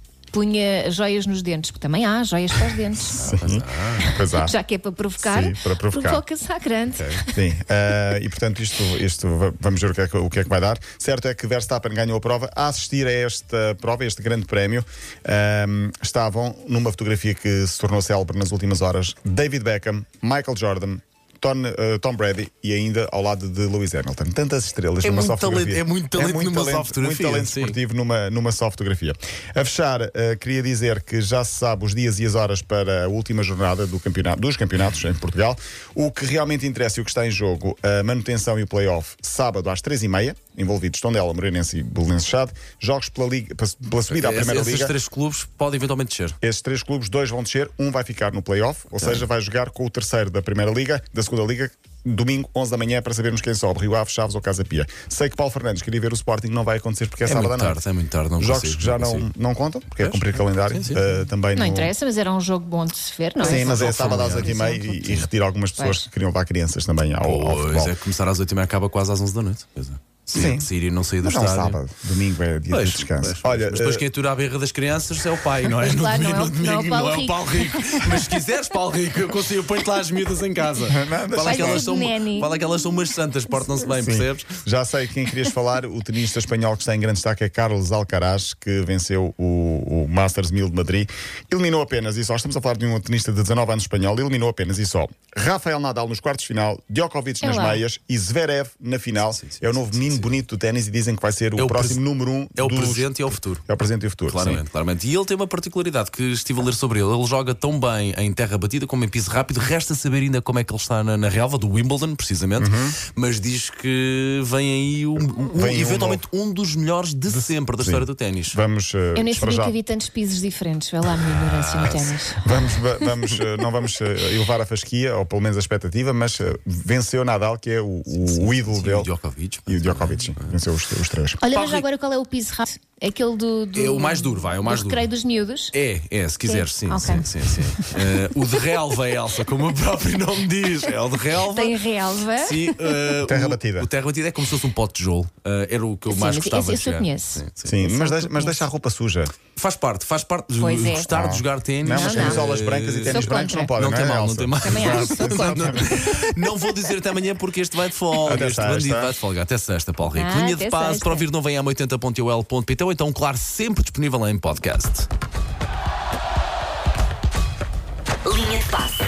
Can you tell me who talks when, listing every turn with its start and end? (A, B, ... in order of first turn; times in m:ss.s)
0:00.3-0:03.2 A
0:03.1-0:04.5 B
0:03.2-0:04.1 C
0:04.0-0:07.4 A
0:05.2-0:06.2 B
0:07.0-0:07.2 C
0:07.4-0:44.9 B
0:25.0-0:27.8 C
0:44.1-0:46.4 C
0:46.4-0:57.8 B
0:49.0-0:49.2 C
0:57.2-0:59.3 C
0:58.4-1:01.9 B
1:00.0-1:01.0 C
1:01.5-1:05.2 A
1:03.4-1:08.0 B
1:03.4-1:04.7 C
1:05.8-1:06.0 A
1:07.2-1:11.8 C
1:10.3-1:10.7 B
1:11.2-1:14.1 B
1:12.7-1:24.6 C
1:15.8-1:18.2 A
1:20.8-1:21.9 B
1:21.4-1:22.5 A
1:23.8-1:44.6 B
1:37.4-1:37.8 A
1:39.3-1:40.3 C
1:41.6-1:42.0 C
1:42.6-1:43.6 C
1:44.3-1:58.6 C
1:52.6-1:53.0 B
1:55.4-1:56.2 B
1:57.3-1:59.8 B
1:59.2-2:02.4 A
2:01.3-2:02.1 C
2:02.4-2:09.1 B
2:08.1-2:10.6 C
2:09.7-2:11.4 B
2:11.4-2:15.7 A
2:11.5-2:11.8 C
2:13.7-2:15.1 C
2:15.7-2:21.8 C
2:16.4-2:18.0 A
2:21.4-2:23.0 A
2:22.3-2:27.8 C
2:23.2-2:23.9 B
2:26.1-2:28.6 A
2:27.6-2:29.3 B
2:29.6-2:45.1 C
2:30.6-2:31.1 A
2:31.1-2:36.1 B
2:31.9-2:32.5 A
2:33.1-2:33.7 A
2:34.6-2:36.2 A
2:38.2-2:39.2 B
2:40.1-2:41.3 A
2:48.5-2:48.8 A